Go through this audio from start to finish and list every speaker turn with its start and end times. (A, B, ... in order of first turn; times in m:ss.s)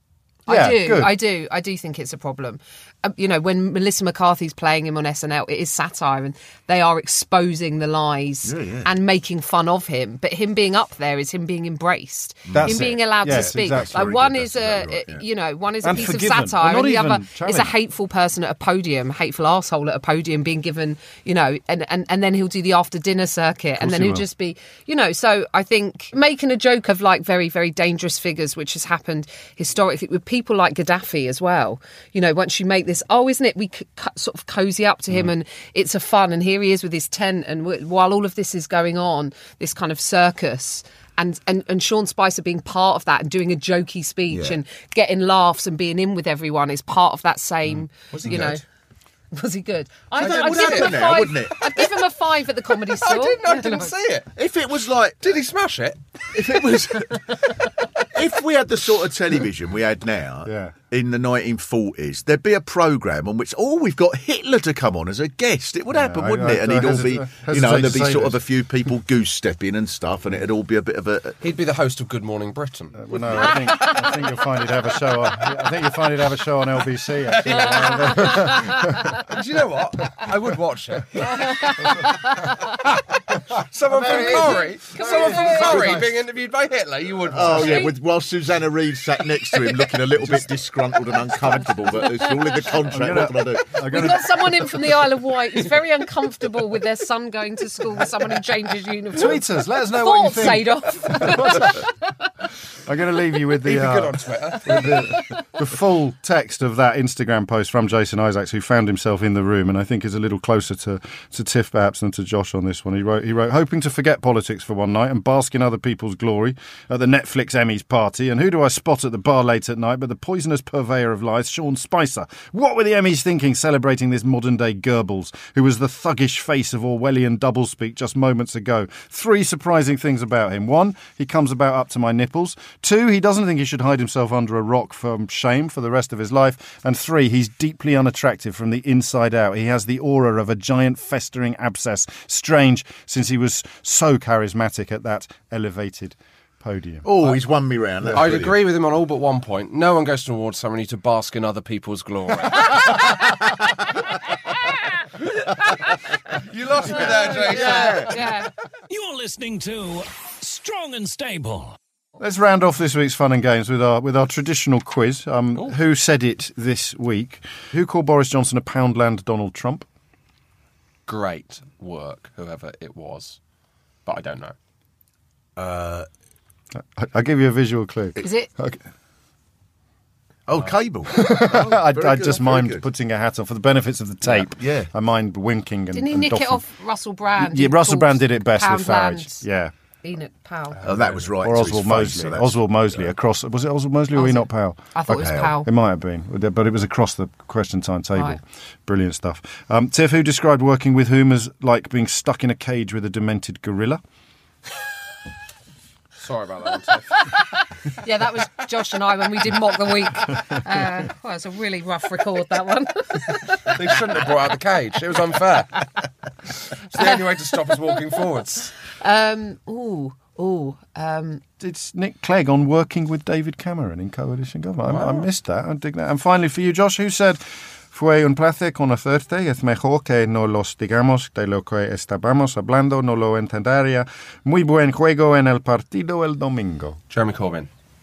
0:00.4-0:48.6 A
0:00.5-0:01.2 B
0:08.4-0:08.9 C
0:12.5-0:15.2 C
0:12.5-0:14.1 B
0:15.8-0:17.7 B
0:23.8-0:24.2 B
0:44.3-0:44.6 C
0:48.0-0:48.6 C
0:49.3-0:53.9 A
0:50.2-0:51.6 C
0:50.2-0:51.9 D
0:52.9-0:54.3 D
0:54.3-0:55.2 C
0:55.2-0:56.6 D
0:56.3-1:11.4 C
1:00.4-1:00.7 B
1:05.9-1:08.4 B
1:11.4-1:13.6 D
1:12.9-1:19.1 B
1:13.6-1:14.1 A
1:17.2-1:23.0 D
1:21.5-1:22.5 A
1:21.8-1:22.1 B
1:23.5-1:27.9 D
1:23.8-1:26.1 B
1:24.1-1:25.9 A
1:27.3-1:33.8 C
1:27.5-1:27.9 A
1:32.0-1:32.6 A
1:32.8-1:34.7 B
1:33.8-1:42.3 A
1:39.1-1:41.9 B
1:42.8-2:27.0 B
1:43.6-1:45.2 D
1:44.7-1:45.4 A
2:27.0-2:28.5 C
2:28.0-2:28.3 B
2:28.1-2:33.1 D
2:36.3-2:38.1 D
2:36.8-2:38.2 C
2:37.4-2:38.5 A
2:38.9-2:41.8 E
2:42.2-2:49.9 B
2:51.1-2:53.4 D
2:54.0-2:54.5 D
2:55.6-2:56.1 C
2:56.7-2:58.8 B
2:58.2-2:58.5 A
3:00.5-3:02.8 C
3:01.1-3:06.6 B
3:04.2-3:04.9 C
3:05.9-3:09.4 A
3:07.4-3:09.7 B
3:10.0-3:10.8 A
3:10.8-3:13.1 C
3:11.4-3:14.9 B
3:14.1-3:15.7 A
3:15.1-3:15.5 C
3:15.4-3:24.0 B
3:26.2-3:27.3 D
3:27.2-3:33.8 A
3:33.6-3:36.0 D
3:36.8-3:38.7 D
3:39.0-3:41.4 A
3:41.6-3:57.0 B
3:44.9-3:45.2 D
3:57.1-3:57.7 D